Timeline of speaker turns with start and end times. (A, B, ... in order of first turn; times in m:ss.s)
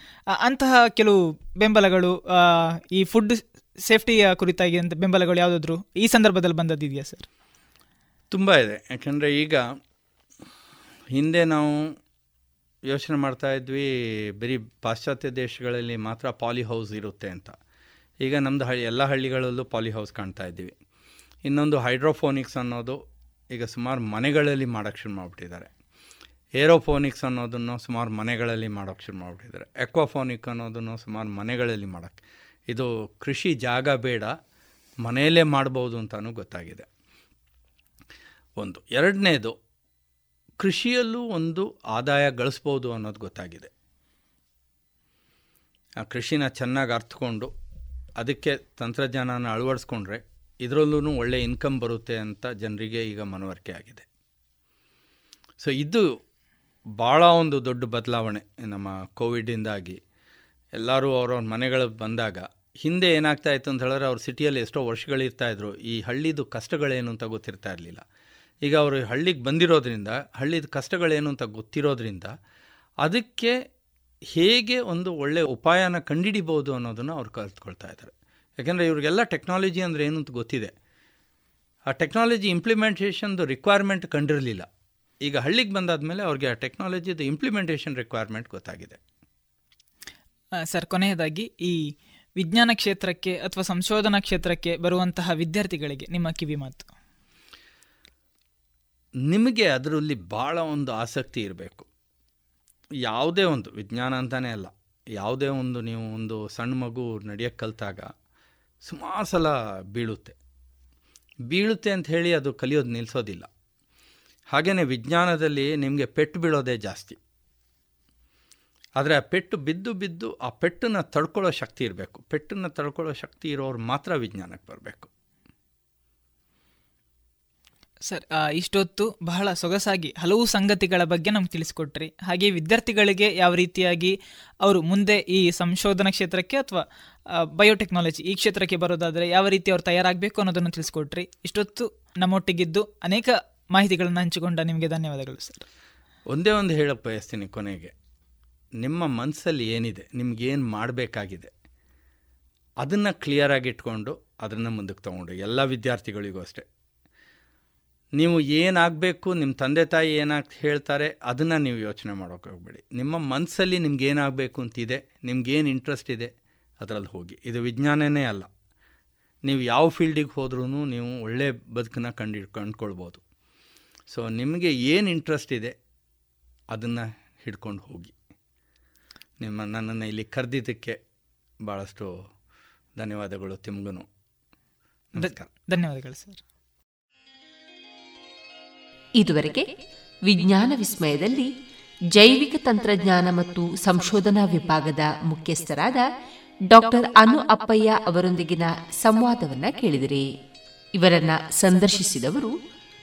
0:00.4-0:07.3 A
0:08.3-0:09.6 B
0:11.2-0:11.9 B
0:12.9-0:17.6 B
0:18.2-0:20.8 B
0:21.4-0:23.0 B
0:23.5-0:25.7 B
0:26.6-0:34.3 B
0:35.0-0:36.9 B
0:38.6-0:39.6 B
0:40.6-0:43.7 B
0:46.0-0:47.5 B
0:48.2-0:54.0 B
0:55.6-0:56.1 B
0:57.0-1:00.0 B
1:00.8-1:08.0 B
1:08.6-1:12.3 B
1:13.0-1:13.6 B
1:14.3-1:20.7 B
1:21.9-1:24.7 B
1:25.2-1:29.0 B
1:30.7-1:31.8 A
1:32.4-1:36.9 A
1:39.3-1:41.9 B
1:43.1-1:48.1 B
1:48.8-1:50.4 B
1:51.5-1:53.5 B
1:54.5-1:57.2 B
1:59.0-2:05.1 B
2:08.1-2:16.8 A
2:17.6-2:25.6 A
2:26.3-2:27.9 B
2:28.8-2:31.5 B
2:32.8-2:36.6 B
2:38.2-2:48.5 B
2:49.4-2:53.2 B
2:54.1-2:55.8 B
2:56.7-2:58.1 B
2:59.4-3:01.0 B
3:01.6-3:02.2 B
3:03.0-3:04.1 B
3:05.1-3:05.5 B
3:05.2-3:06.4 A
3:09.2-3:09.7 C
3:10.3-3:11.5 C
3:12.2-3:16.0 C
3:16.7-3:20.3 C
3:21.0-3:22.6 C